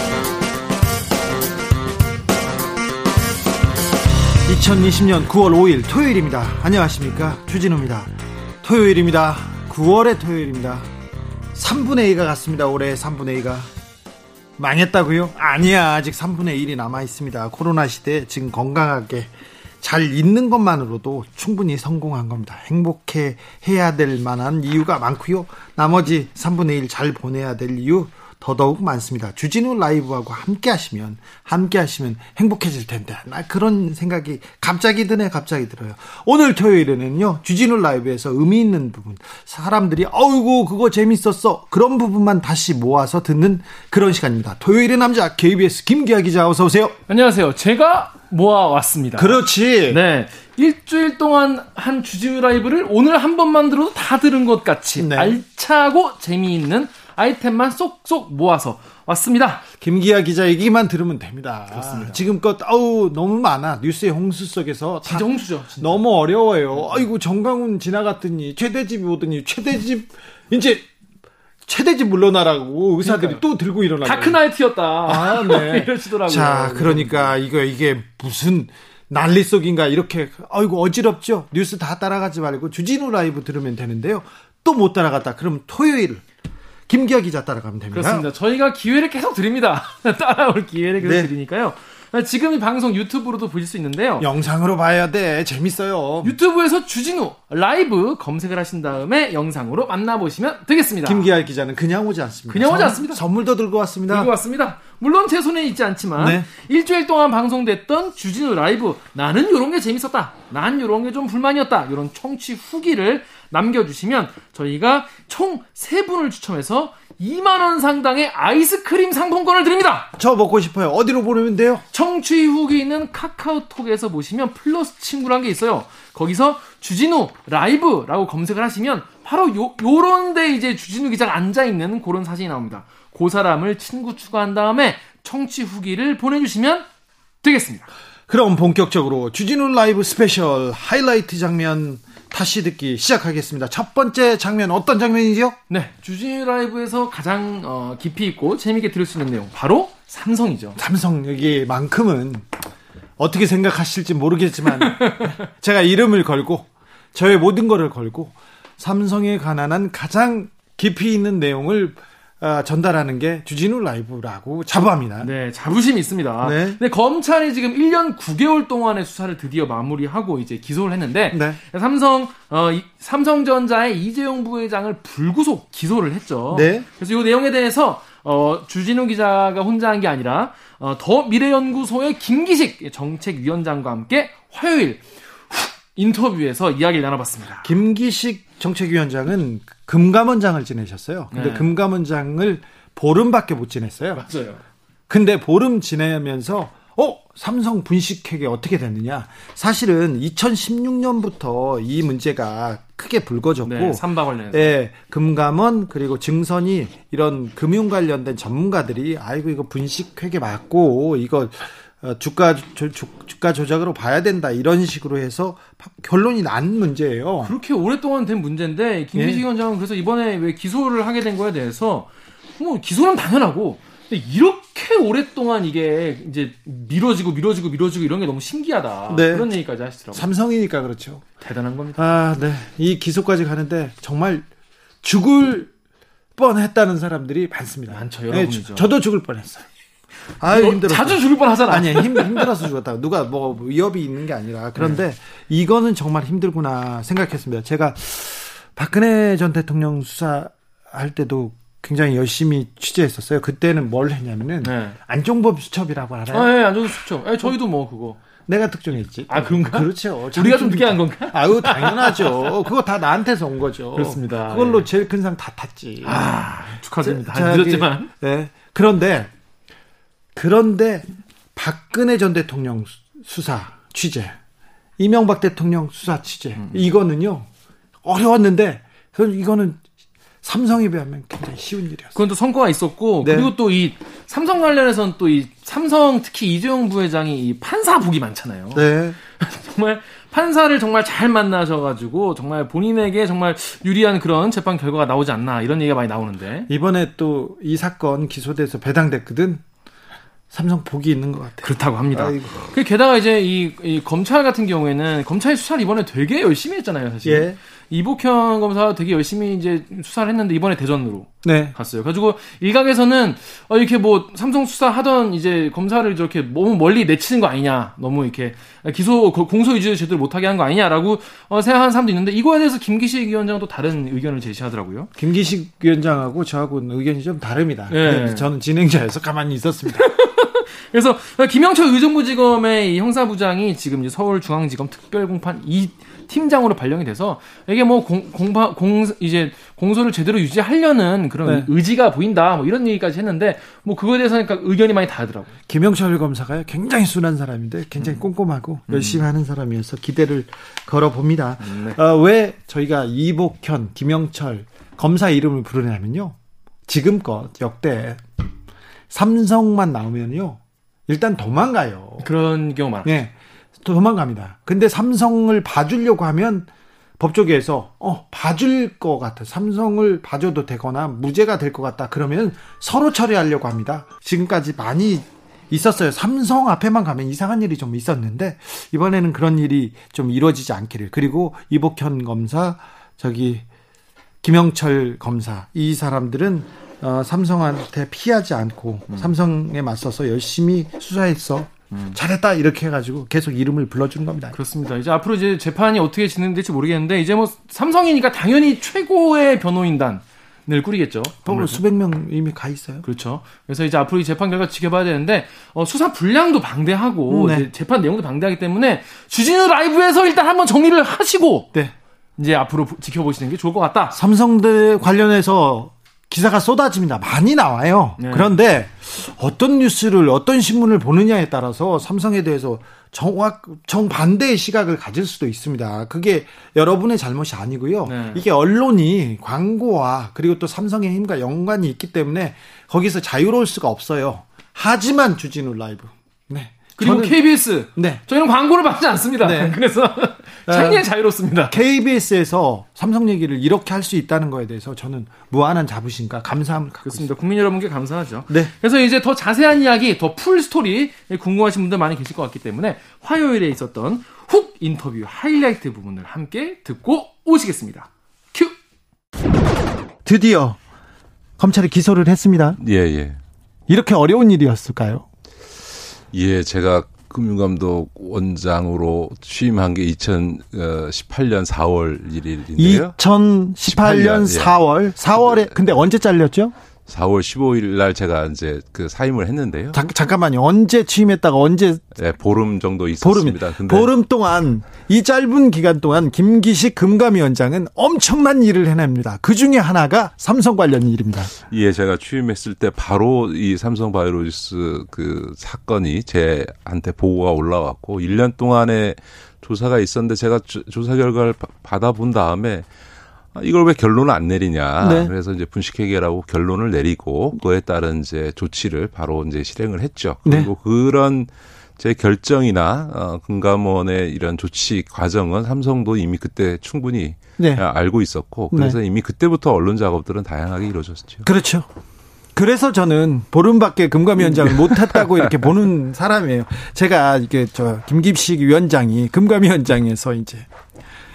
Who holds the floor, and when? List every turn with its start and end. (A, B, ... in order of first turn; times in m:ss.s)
0:04.4-0:10.9 A
0:11.5-0:13.7 A
0:14.6-0:19.3 A
0:19.8-0:47.0 A
0:47.1-0:59.7 B
0:49.2-0:50.0 A
0:55.0-0:55.4 A
0:59.8-1:10.9 A
1:01.7-1:02.2 B
1:05.0-1:06.0 B
1:06.7-1:07.1 B
1:11.6-1:14.4 A
1:13.0-1:13.4 B
1:14.0-1:17.3 B
1:15.0-1:26.2 A
1:26.9-1:28.3 A
1:27.9-1:34.3 B
1:31.0-1:31.3 A
1:34.2-1:36.4 A
1:36.2-1:41.3 B
1:41.0-1:44.3 A
1:42.5-1:43.2 B
1:44.1-2:00.1 B
1:46.2-1:46.5 A
2:00.2-2:01.8 A
2:01.9-2:16.9 B
2:17.4-2:17.9 B
2:18.3-2:25.6 A
2:25.7-2:30.8 B
2:30.8-2:32.5 A
2:33.2-2:45.3 A
2:34.8-2:35.3 B
2:45.2-3:07.7 B
2:46.4-2:46.8 A
2:51.3-2:51.6 A
2:56.5-2:56.9 A
3:07.6-3:14.2 A
3:11.3-3:11.7 B
3:14.1-3:14.6 B
3:15.1-3:37.5 A
3:23.6-3:24.8 B
3:37.4-3:50.3 B
3:39.1-3:39.4 A
3:49.1-3:49.5 A
3:50.1-3:51.2 A
3:51.4-3:52.1 B
3:52.0-3:54.5 A
3:55.0-3:55.7 A
3:56.4-3:59.7 A
3:57.9-3:58.9 B
4:00.4-4:16.6 A
4:00.5-4:02.6 B
4:14.6-4:15.0 B
4:16.3-4:18.2 B
4:18.4-4:26.2 A
4:19.3-4:22.5 B
4:24.0-4:24.9 B
4:26.0-4:28.1 B
4:27.0-4:29.3 A
4:30.3-4:34.4 A
4:35.0-4:37.5 A
4:36.6-4:36.9 B
4:38.0-4:39.8 A
4:40.4-4:42.2 A
4:42.1-4:48.9 B
4:43.2-4:43.5 A
4:48.7-4:49.2 A
4:49.4-4:56.7 B
4:56.7-4:59.6 A
5:00.5-5:02.7 A
5:01.6-5:25.1 B
5:07.2-5:07.6 A
5:11.4-5:11.8 A
5:25.2-5:30.1 A
5:27.9-5:28.5 B
5:30.0-5:45.5 B
5:41.4-5:41.7 A
5:45.7-5:56.4 A
5:48.9-5:49.2 B
5:51.6-5:52.0 B
5:56.9-5:58.2 A
5:59.1-6:02.3 A
6:02.2-6:03.1 B
6:03.0-6:23.6 A
6:24.4-6:34.6 A
6:31.9-6:32.2 B
6:34.5-6:41.8 B
6:41.4-6:43.0 A
6:43.0-6:51.7 B
6:47.3-6:47.7 A
6:52.4-6:54.2 B
6:54.1-7:18.2 A
6:58.2-6:58.5 B
7:08.0-7:08.4 B
7:17.0-7:21.8 B
7:19.4-7:19.8 A
7:20.7-7:21.0 A
7:21.7-7:27.3 A
7:27.0-7:38.8 B
7:40.2-7:40.8 A
7:41.6-7:42.8 A
7:42.8-7:43.4 C
7:43.9-7:45.2 A
7:46.3-7:53.1 C
7:52.8-7:56.7 A
7:53.9-7:54.7 C
7:57.1-8:00.0 C
7:59.9-8:02.0 A
8:02.2-8:04.1 C
8:03.2-8:11.5 A
8:11.7-8:22.8 C
8:23.5-8:41.5 C
8:25.0-8:25.3 A
8:30.4-8:30.7 A
8:37.6-8:37.8 A
8:38.7-8:39.0 A
8:41.4-8:41.9 A
8:42.5-8:50.7 A